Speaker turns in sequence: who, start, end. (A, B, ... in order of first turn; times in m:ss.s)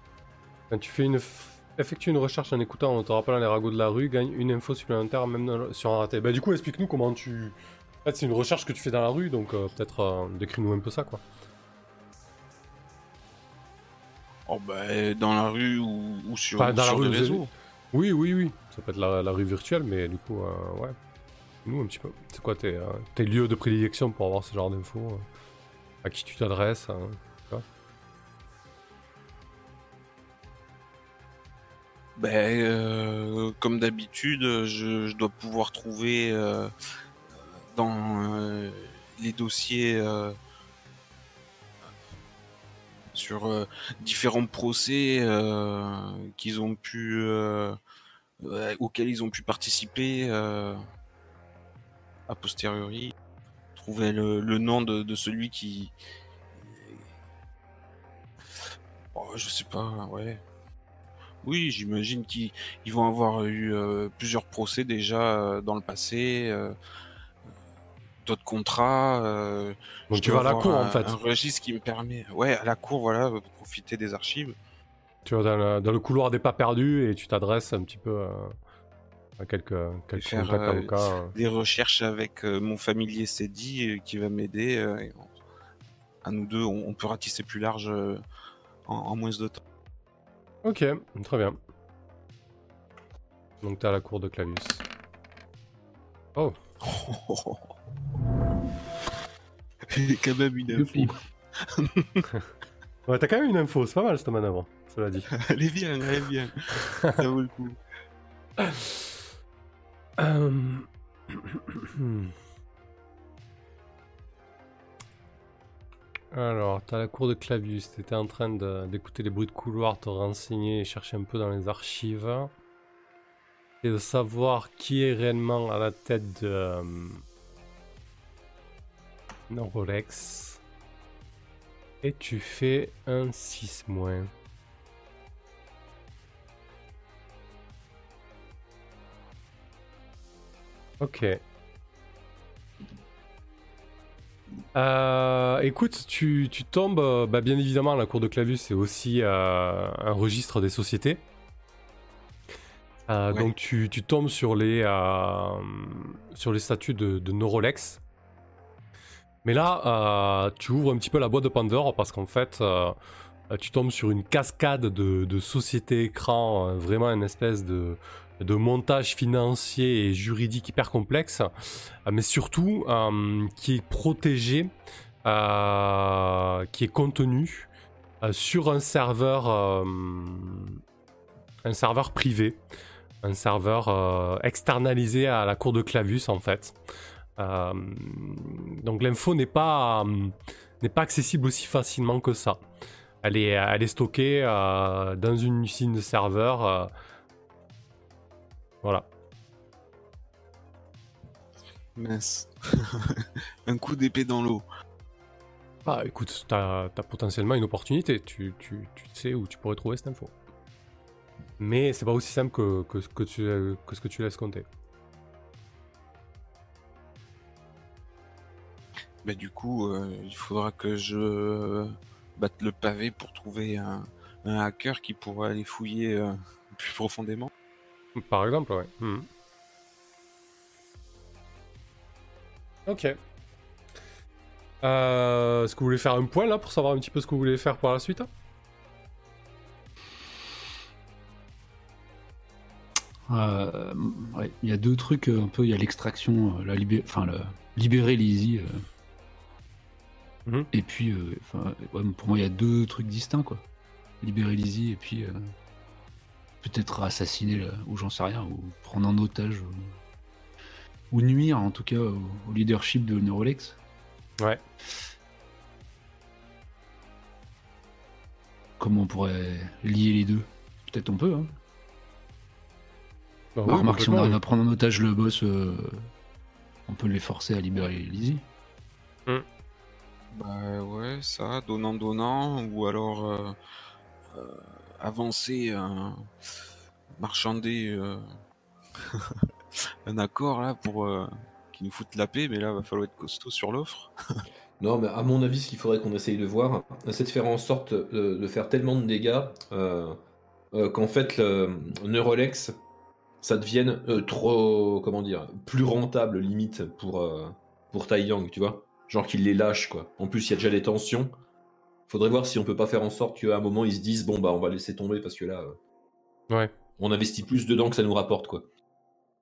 0:00.7-0:11.2 A
0:14.5-0:17.5 B
0:16.6-0:21.0 A
0:21.6-0:25.2 A
0:26.0-0:27.6 A
0:32.2-0:36.7 B
0:37.7-0:40.4 B
0:43.1-0:47.8 B
0:48.4-0:50.8 B
0:52.3-0:53.2 B
0:53.8-0:55.9 B
0:56.6-0:57.0 B
0:59.1-1:00.4 B
1:01.4-1:06.8 B
1:08.2-1:14.6 B
1:10.1-1:11.2 A
1:15.2-1:18.6 A
1:19.4-1:21.3 A
1:20.2-1:25.3 B
1:26.2-1:28.2 B
1:28.9-1:29.6 B
1:30.6-1:31.6 A
1:33.6-1:34.8 A
1:36.8-1:37.7 B
1:39.9-1:42.3 B
1:40.7-1:41.2 C
1:43.1-1:45.3 A
1:45.3-1:47.8 B
1:48.6-1:48.9 A
1:50.2-1:52.3 A
1:56.3-2:02.5 A
2:03.8-2:07.2 A
2:09.5-2:10.6 A
2:12.0-2:14.3 A
2:21.0-2:21.4 A
2:24.8-2:31.2 A
2:33.1-2:38.0 A
2:39.4-2:43.0 A
2:43.5-2:51.5 A
2:52.0-2:54.7 A
2:55.2-3:00.8 A
3:01.6-3:02.6 A
3:03.2-3:06.8 A
3:07.4-3:12.6 A
3:13.2-3:16.9 A
3:22.0-3:24.6 B
3:25.8-3:30.3 A
3:31.6-3:34.7 A
3:39.2-3:47.5 B
3:48.2-3:49.3 A
3:52.9-3:53.2 A
3:54.8-3:58.3 A
4:03.3-4:08.8 C
4:10.7-4:13.6 C
4:14.2-4:15.5 C
4:16.6-4:20.0 C
4:21.1-4:23.8 C
4:28.8-4:31.6 C
4:33.6-4:34.4 A
4:33.7-4:36.1 C
4:36.9-4:38.4 C
4:40.3-4:43.6 B
4:44.3-4:46.3 B
4:47.2-4:48.3 B
4:49.1-4:49.4 B
4:50.1-4:54.1 B
4:54.8-5:00.2 D
5:00.7-5:02.8 D
5:03.4-5:11.3 D
5:12.1-5:15.8 D
5:17.0-5:18.6 D